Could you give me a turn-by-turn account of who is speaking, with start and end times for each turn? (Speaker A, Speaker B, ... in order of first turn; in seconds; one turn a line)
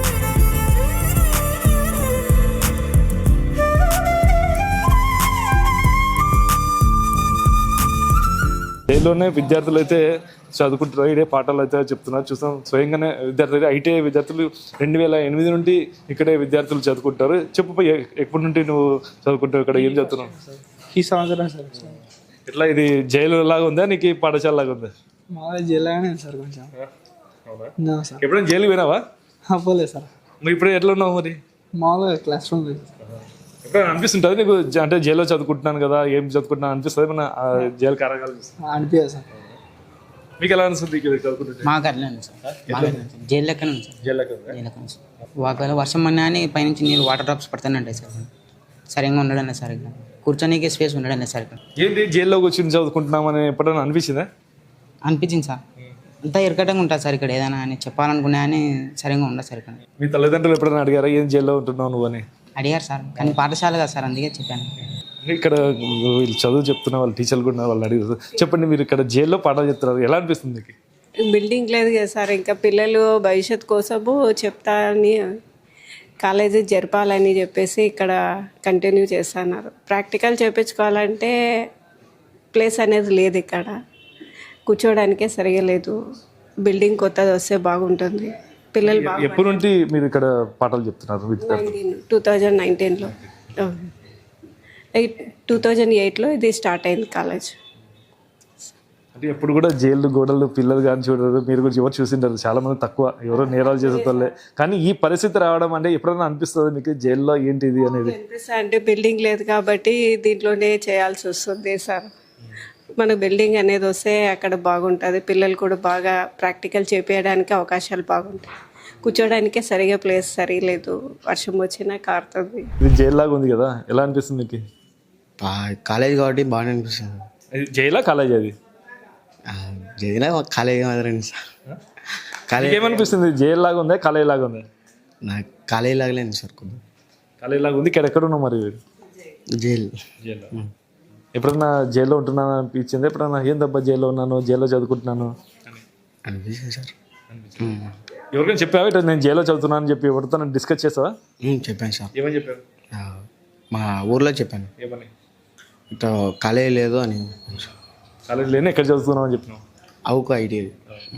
Speaker A: 8.9-20.4
Speaker B: 20.5-22.0
Speaker A: 22.5-24.9
Speaker B: 25.3-26.7
Speaker A: 27.5-29.0
Speaker B: 27.8-28.2
Speaker B: 29.5-30.1
Speaker A: 30.4-31.4
Speaker B: 31.8-32.9
Speaker A: 33.6-38.5
Speaker B: 38.6-39.3
Speaker A: 40.4-41.7
Speaker C: 41.6-44.0
Speaker A: 42.5-43.0
Speaker D: 42.7-43.0
Speaker A: 44.0-44.6
Speaker C: 44.5-48.3
Speaker C: 48.9-51.6
Speaker A: 51.8-54.3
Speaker C: 55.0-55.6
Speaker C: 56.2-59.8
Speaker A: 60.0-62.2
Speaker C: 62.6-64.7
Speaker A: 65.2-70.8
Speaker E: 71.3-75.2
Speaker E: 76.2-81.3
Speaker E: 82.5-83.8
Speaker E: 84.7-86.0
Speaker E: 86.6-89.7
Speaker A: 88.9-91.7
Speaker E: 91.4-93.9
Speaker E: 94.9-97.5
Speaker A: 99.1-108.2
Speaker E: 103.4-104.3
Speaker E: 108.0-112.1
Speaker E: 113.0-118.5
Speaker E: 119.0-122.7
Speaker A: 122.8-124.6
Speaker D: 125.4-127.2
Speaker A: 127.5-128.5
Speaker D: 129.5-131.4
Speaker D: 132.5-133.1
Speaker A: 132.6-134.7
Speaker D: 135.2-136.8
Speaker A: 137.4-138.8
Speaker D: 139.5-139.9
Speaker A: 140.2-140.5
Speaker A: 141.3-145.8
Speaker D: 146.3-146.9
Speaker A: 147.3-147.7
Speaker D: 147.6-147.9
Speaker A: 148.3-151.2
Speaker D: 151.4-152.1
Speaker A: 152.1-152.6
Speaker D: 152.9-154.7
Speaker A: 154.8-155.1
Speaker D: 155.9-157.7
Speaker A: 158.3-159.6
Speaker D: 160.1-160.7